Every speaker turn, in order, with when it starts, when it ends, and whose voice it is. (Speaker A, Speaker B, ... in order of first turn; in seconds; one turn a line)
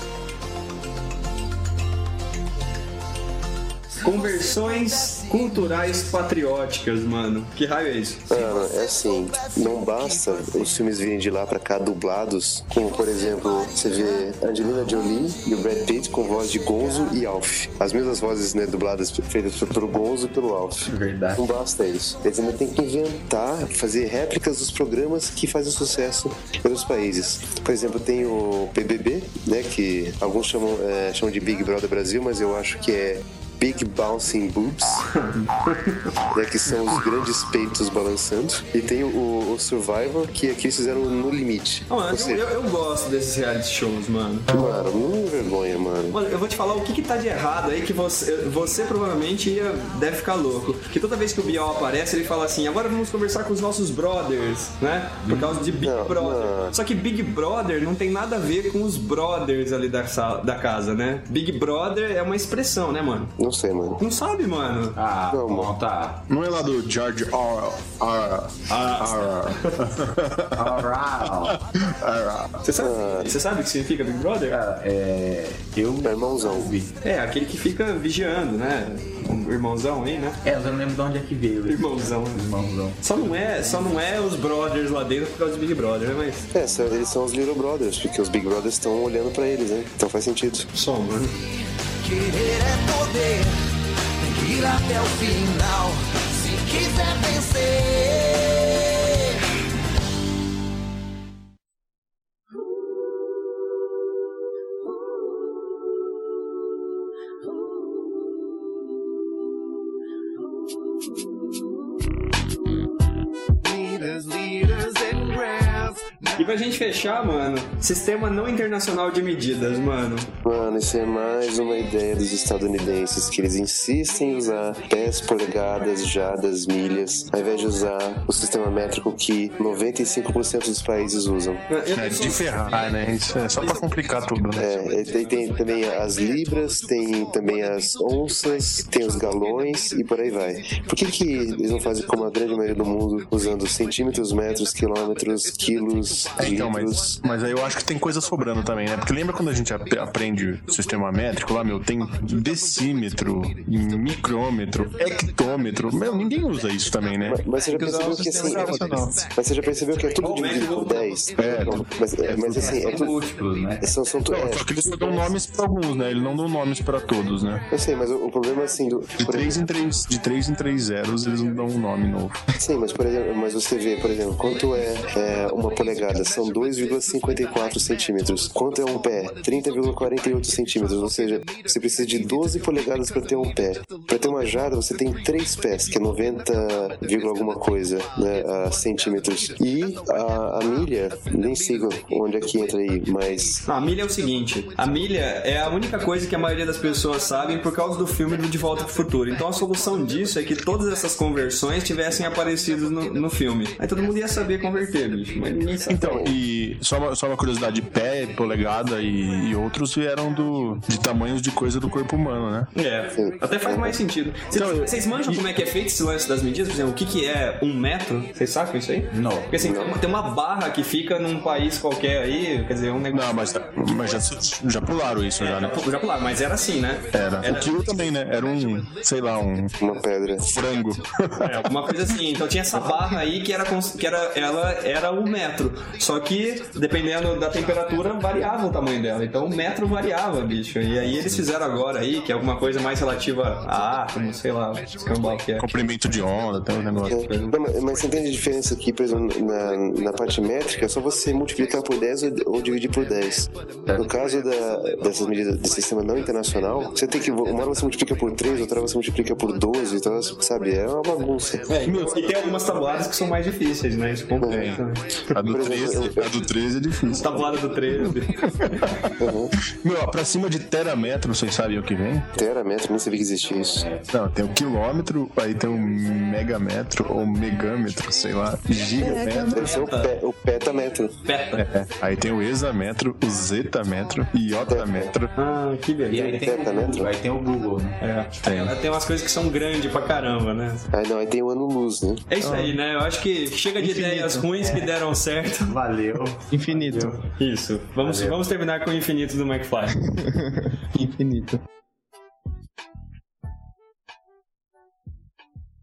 Speaker A: 4.0-5.9
Speaker B: 4.0-8.3
Speaker C: 8.3-35.1
Speaker A: 8.3-10.9
Speaker A: 12.8-14.3
Speaker A: 16.5-17.2
Speaker D: 20.9-21.5
Speaker B: 35.2-36.0
Speaker C: 36.3-42.4
Speaker B: 41.9-44.5
Speaker C: 44.5-46.2
Speaker B: 46.1-63.4
Speaker D: 55.2-55.7
Speaker C: 55.8-56.7
Speaker C: 63.4-64.0
Speaker B: 64.0-65.0
Speaker D: 65.0-66.2
Speaker C: 65.3-65.7
Speaker E: 66.3-72.5
Speaker B: 68.7-69.7
Speaker D: 70.5-71.6
Speaker B: 72.6-74.6
Speaker C: 72.8-73.4
Speaker D: 74.5-76.9
Speaker C: 76.0-76.7
Speaker B: 77.0-80.4
Speaker D: 80.4-83.9
Speaker B: 81.7-82.4
Speaker B: 83.0-86.5
Speaker C: 86.5-90.7
Speaker B: 90.7-91.3
Speaker A: 91.3-93.5
Speaker A: 94.2-99.4
Speaker A: 113.6-116.4
Speaker B: 116.4-120.3
Speaker C: 120.4-131.6
Speaker B: 131.7-132.5
Speaker E: 131.9-134.8
Speaker C: 134.6-147.2
Speaker E: 146.4-157.4
Speaker C: 157.2-163.2
Speaker F: 157.6-159.2
Speaker E: 158.3-159.2
Speaker B: 160.2-161.1
Speaker E: 161.4-163.0
Speaker D: 162.5-163.9
Speaker C: 163.8-165.3
Speaker E: 164.3-167.7
Speaker C: 167.7-169.6
Speaker E: 169.2-172.4
Speaker C: 172.6-193.6
Speaker B: 193.6-206.2
Speaker E: 205.9-212.7
Speaker C: 205.9-206.3
Speaker B: 212.7-223.5
Speaker C: 213.2-213.9
Speaker E: 214.5-215.4
Speaker D: 219.1-219.5
Speaker C: 219.6-219.9
Speaker E: 223.1-225.8
Speaker B: 225.4-227.8
Speaker E: 227.1-229.8
Speaker C: 229.8-230.5
Speaker E: 230.4-231.6
Speaker B: 231.4-245.7
Speaker E: 245.6-247.2
Speaker C: 247.0-261.7
Speaker B: 247.2-247.6
Speaker B: 261.7-265.4
Speaker E: 261.8-262.2
Speaker C: 264.4-264.8
Speaker E: 264.5-267.5
Speaker C: 265.5-266.3
Speaker B: 267.1-268.9
Speaker E: 268.8-269.1
Speaker C: 269.2-269.5
Speaker E: 269.8-272.3
Speaker C: 272.4-273.9
Speaker D: 273.7-274.1
Speaker E: 274.1-279.7
Speaker C: 279.0-281.1
Speaker D: 279.1-279.4
Speaker B: 279.5-280.2
Speaker B: 281.2-281.7
Speaker E: 281.6-285.3
Speaker C: 284.7-285.1
Speaker B: 285.4-286.5
Speaker D: 286.1-288.0
Speaker C: 286.4-287.1
Speaker B: 288.0-290.8
Speaker E: 288.4-288.7
Speaker C: 290.9-292.2
Speaker B: 292.3-295.8
Speaker F: 292.4-292.8
Speaker F: 293.8-294.4
Speaker D: 294.6-294.9
Speaker D: 295.6-297.2
Speaker F: 296.5-297.1
Speaker B: 297.3-300.0
Speaker D: 298.0-298.4
Speaker F: 300.1-301.6